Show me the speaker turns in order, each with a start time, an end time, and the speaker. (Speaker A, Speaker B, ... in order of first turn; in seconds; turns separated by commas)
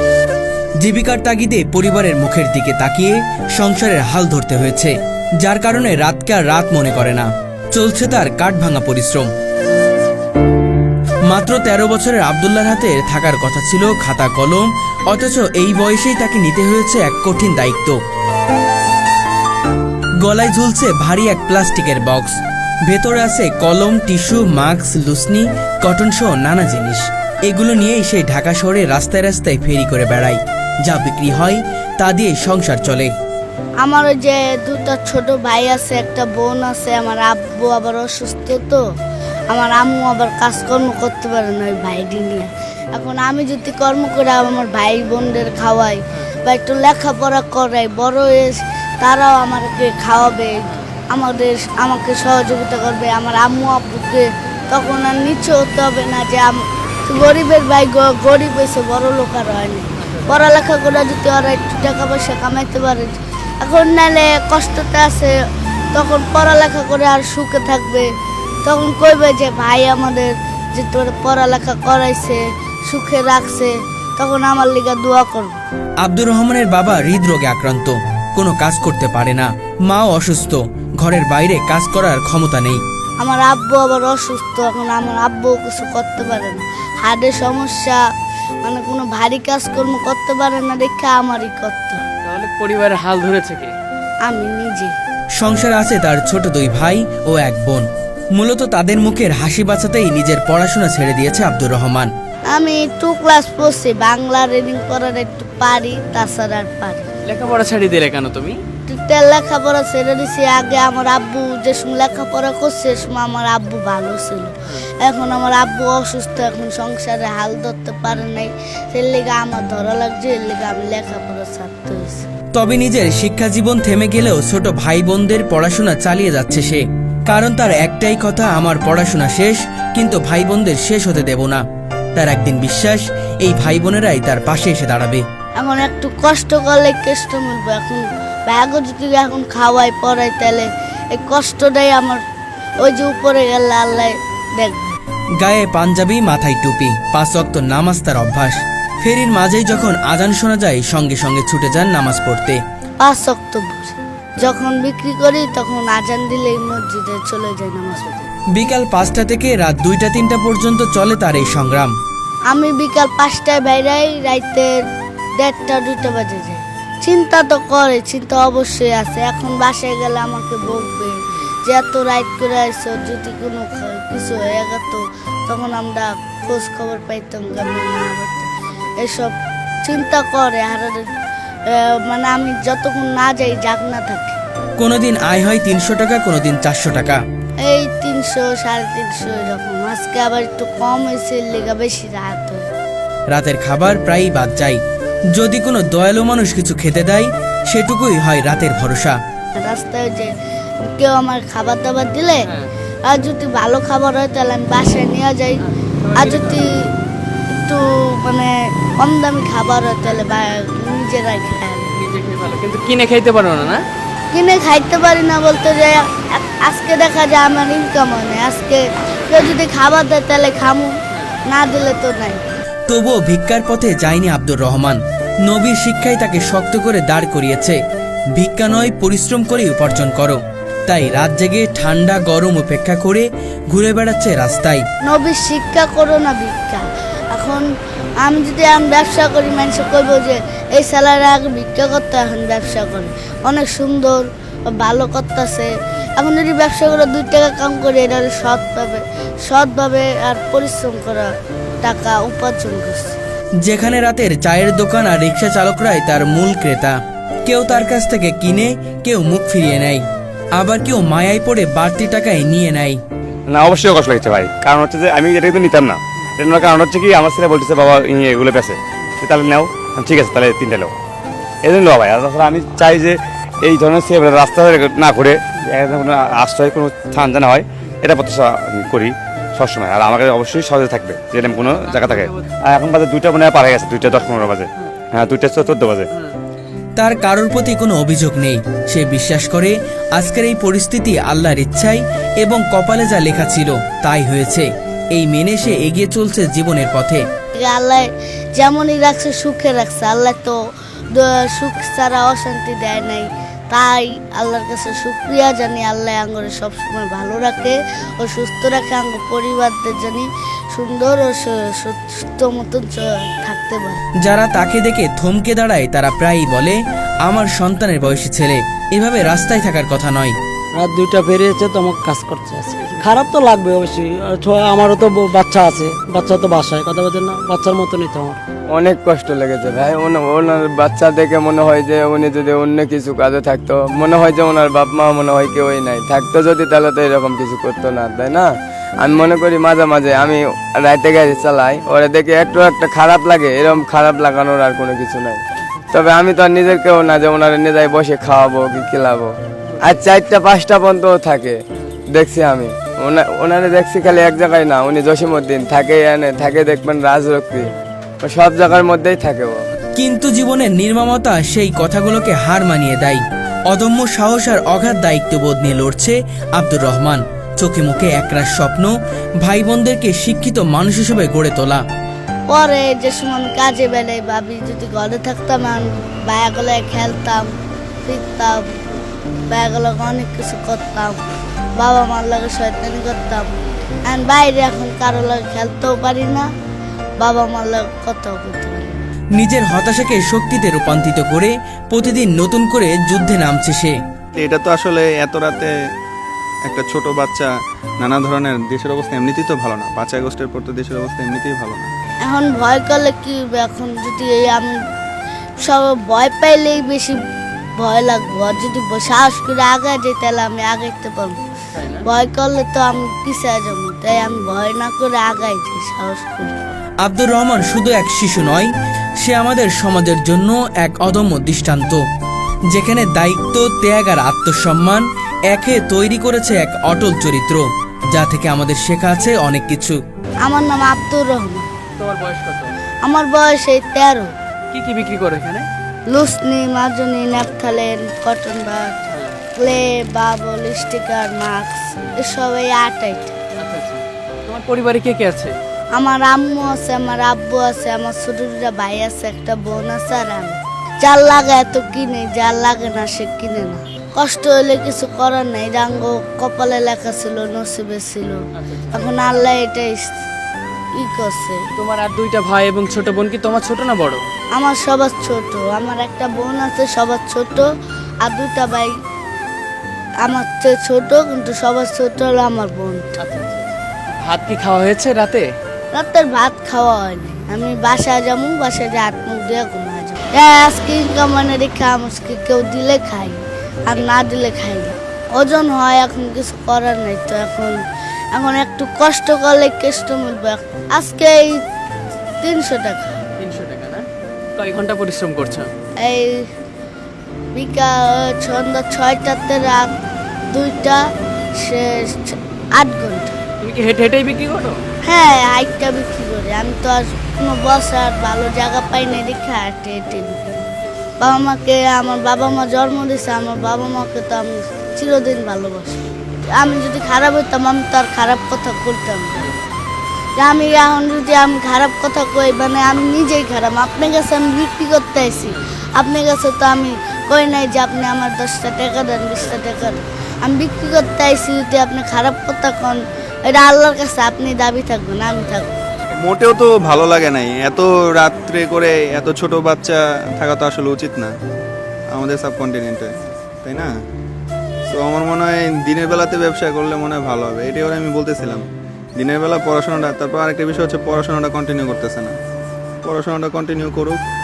Speaker A: 0.8-9.3, Speaker A: 11.3-18.0, Speaker A: 20.2-22.4, Speaker A: 22.9-33.1, Speaker B: 33.8-38.8, Speaker B: 39.5-65.3, Speaker C: 60.0-60.4, Speaker B: 65.9-68.1, Speaker B: 68.7-75.6, Speaker A: 76.0-82.8, Speaker B: 83.2-88.0, Speaker B: 88.6-92.0, Speaker C: 92.2-93.7, Speaker B: 94.3-95.0, Speaker A: 95.4-102.1, Speaker B: 102.5-107.1, Speaker C: 107.3-108.6, Speaker B: 108.9-122.3, Speaker A: 122.5-131.6, Speaker A: 132.2-135.2, Speaker B: 135.6-142.2, Speaker B: 142.8-145.0, Speaker A: 145.4-152.6, Speaker B: 153.0-158.3, Speaker A: 158.6-161.9, Speaker B: 162.5-164.7, Speaker B: 165.4-179.3, Speaker B: 179.8-181.1, Speaker B: 181.7-184.4, Speaker A: 184.8-187.2, Speaker B: 187.7-192.6, Speaker A: 193.3-194.8, Speaker A: 195.3-199.2, Speaker B: 199.6-200.3, Speaker B: 200.8-202.5, Speaker C: 202.5-202.7, Speaker B: 203.1-205.6, Speaker C: 205.6-206.7, Speaker B: 206.2-206.8, Speaker B: 207.6-211.9, Speaker C: 211.9-213.8, Speaker B: 214.3-220.9, Speaker B: 221.5-222.4, Speaker A: 222.9-227.8, Speaker A: 228.4-234.8, Speaker B: 235.1-237.7, Speaker B: 238.2-251.3, Speaker B: 251.8-253.2, Speaker A: 253.7-260.0, Speaker A: 260.6-263.0, Speaker D: 263.5-270.9, Speaker D: 271.6-286.1, Speaker C: 281.6-282.5, Speaker A: 287.0-297.2, Speaker B: 297.6-300.6, Speaker B: 301.1-314.0, Speaker A: 314.2-320.4, Speaker E: 320.8-328.4, Speaker F: 328.7-338.5, Speaker F: 339.0-349.3, Speaker C: 349.6-350.0, Speaker F: 349.9-351.6, Speaker F: 352.1-357.7, Speaker F: 358.2-359.6, Speaker A: 360.0-371.8, Speaker B: 372.5-377.5, Speaker B: 378.1-378.7, Speaker B: 379.5-381.2, Speaker B: 381.8-383.5, Speaker B: 384.1-386.5, Speaker B: 387.2-389.0, Speaker A: 389.4-393.9, Speaker G: 394.4-395.7, Speaker G: 396.7-397.5, Speaker G: 398.0-401.9, Speaker B: 402.2-404.8, Speaker B: 405.7-407.2, Speaker B: 407.8-411.4, Speaker C: 411.8-412.1, Speaker B: 412.1-416.5, Speaker A: 417.0-422.0, Speaker A: 422.7-430.0, Speaker B: 430.4-431.7, Speaker C: 432.0-432.7, Speaker B: 433.1-434.3, Speaker C: 434.7-435.7, Speaker B: 436.1-443.4, Speaker C: 439.1-439.4, Speaker C: 443.6-445.6, Speaker B: 446.0-458.4, Speaker C: 458.6-459.1, Speaker B: 458.9-460.1, Speaker B: 461.0-461.6, Speaker C: 461.8-464.2, Speaker B: 464.6-467.7, Speaker B: 468.2-468.9, Speaker B: 470.2-473.2, Speaker C: 473.2-473.7, Speaker C: 474.2-475.5, Speaker B: 475.9-487.8, Speaker B: 488.3-491.6, Speaker B: 492.4-493.2, Speaker C: 493.4-494.0, Speaker C: 494.6-495.7, Speaker B: 496.0-496.5, Speaker B: 497.6-499.9, Speaker B: 500.5-501.0, Speaker B: 501.6-503.4, Speaker C: 503.6-504.8, Speaker B: 505.1-510.6, Speaker B: 511.2-519.5, Speaker B: 520.4-535.7, Speaker G: 536.1-541.3, Speaker G: 542.1-543.1, Speaker G: 543.6-543.9, Speaker G: 544.9-548.6, Speaker G: 549.2-552.4, Speaker G: 553.0-554.2